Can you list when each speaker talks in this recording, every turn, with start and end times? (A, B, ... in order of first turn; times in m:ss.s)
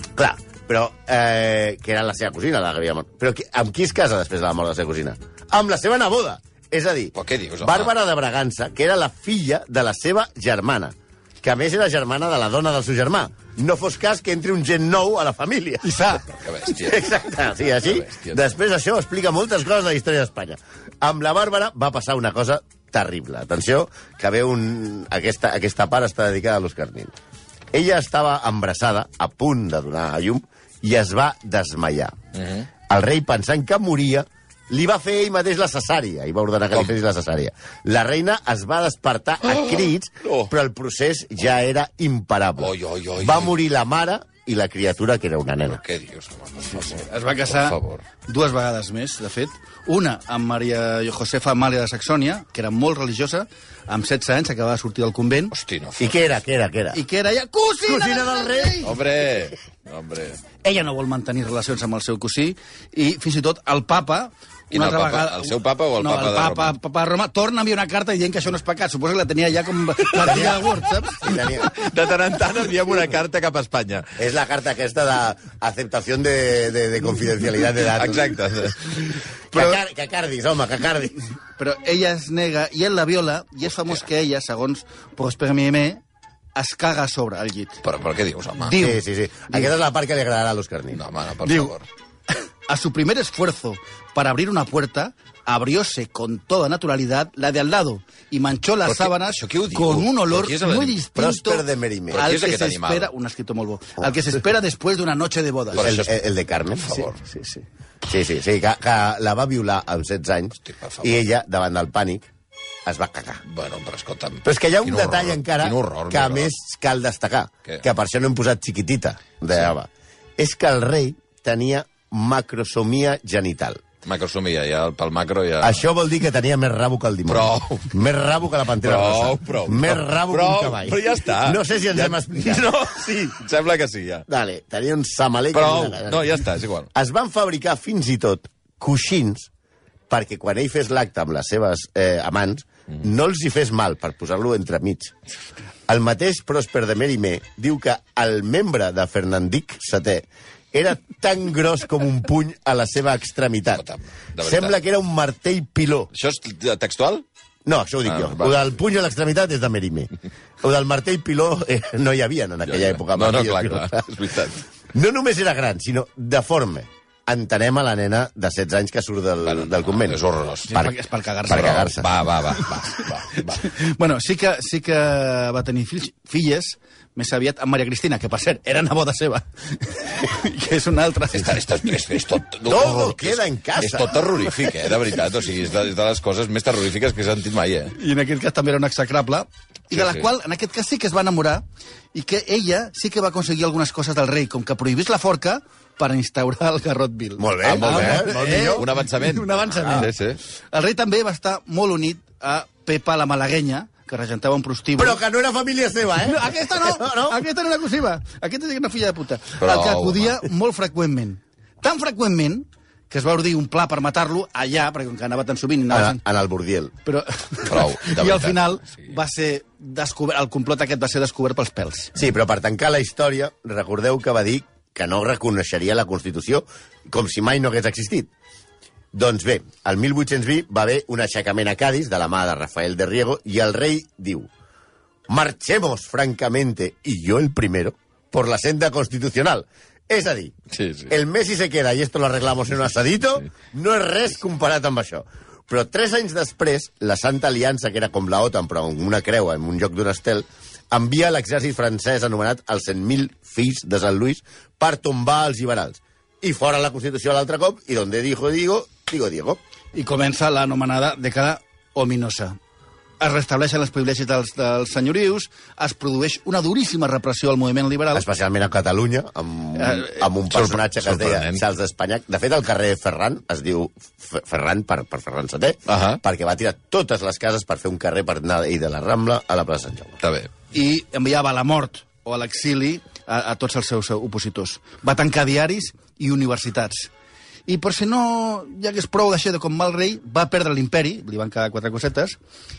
0:00.2-0:15.9 A
0:07.2-0:07.9 B
0:15.8-0:16.2 C
0:16.3-0:17.1 B
0:16.7-0:27.1 A
0:17.7-0:18.5 B
0:27.7-0:32.2 A
0:32.4-0:32.7 B
0:32.9-0:45.8 A
0:39.5-0:40.5 B
0:42.6-0:43.6 B
0:45.7-0:48.0 B
0:47.1-0:55.5 C
0:55.5-0:56.3 B
0:56.0-0:57.0 A
0:56.9-0:58.9 C
0:57.9-0:58.9 A
0:58.8-1:00.4 B
1:00.6-1:11.4 C
1:04.7-1:06.7 B
1:10.3-1:10.5 B
1:10.3-1:10.6 A
1:11.2-1:11.8 A
1:11.7-1:14.1 B
1:14.2-1:18.4 A
1:17.9-1:18.8 B
1:19.5-1:21.2 A
1:21.6-1:26.0 C
1:26.6-1:27.8 C
1:27.8-1:28.8 B
1:28.6-1:29.7 C
1:28.8-1:31.0 A
1:30.9-1:31.9 B
1:31.4-1:31.7 C
1:32.7-1:46.0 C
1:38.8-1:41.0 B
1:41.2-1:42.3 A
1:42.1-1:43.1 B
1:45.8-1:46.1 B
1:45.8-1:47.2 A
1:47.0-1:47.6 C
1:48.1-1:52.3 A
1:50.7-1:51.2 B
1:52.8-1:53.4 A
1:53.5-1:56.5 B
1:54.4-2:03.8 A
2:04.0-2:05.8 B
2:05.6-2:13.4 A
2:07.3-2:07.9 B
2:08.8-2:14.3 B
2:14.3-2:16.3 A
2:15.5-2:16.9 B
2:16.9-2:19.5 A
2:20.1-2:25.1 A
2:25.9-2:33.8 A
2:33.8-2:34.8 B
2:34.4-2:36.1 A
2:36.1-2:37.2 B
2:37.7-2:40.1 A
2:38.1-2:38.7 B
2:40.6-2:44.0 A
2:42.7-2:44.6 B
2:44.9-2:51.0 A
2:49.4-2:50.8 B
2:50.8-2:51.9 C
2:51.5-2:52.1 A
2:51.5-2:53.6 B
2:53.6-3:02.0 C
3:01.3-3:08.0 B
3:02.6-3:04.7 A
3:08.0-3:20.1 C
3:09.9-3:10.3 B
3:17.4-3:18.8 A
3:17.6-3:20.4 B
3:20.7-3:25.2 C
3:25.0-3:27.4 A
3:26.2-3:36.2 C
3:29.6-3:30.5 B
3:35.9-3:36.9 A
3:37.0-3:42.1 C
3:37.7-3:39.1 B
3:42.2-3:48.3 A
3:49.1-3:54.5 A
3:55.3-4:00.6 A
4:00.7-4:01.2 B
4:01.1-4:19.6 A
4:19.9-4:22.6 C
4:23.2-4:28.3 C
4:28.1-4:40.2 A
4:29.8-4:30.2 C
4:30.5-4:31.6 B
4:35.9-4:36.2 B
4:40.2-4:40.5 B
4:40.7-4:47.1 C
4:47.7-4:52.4 C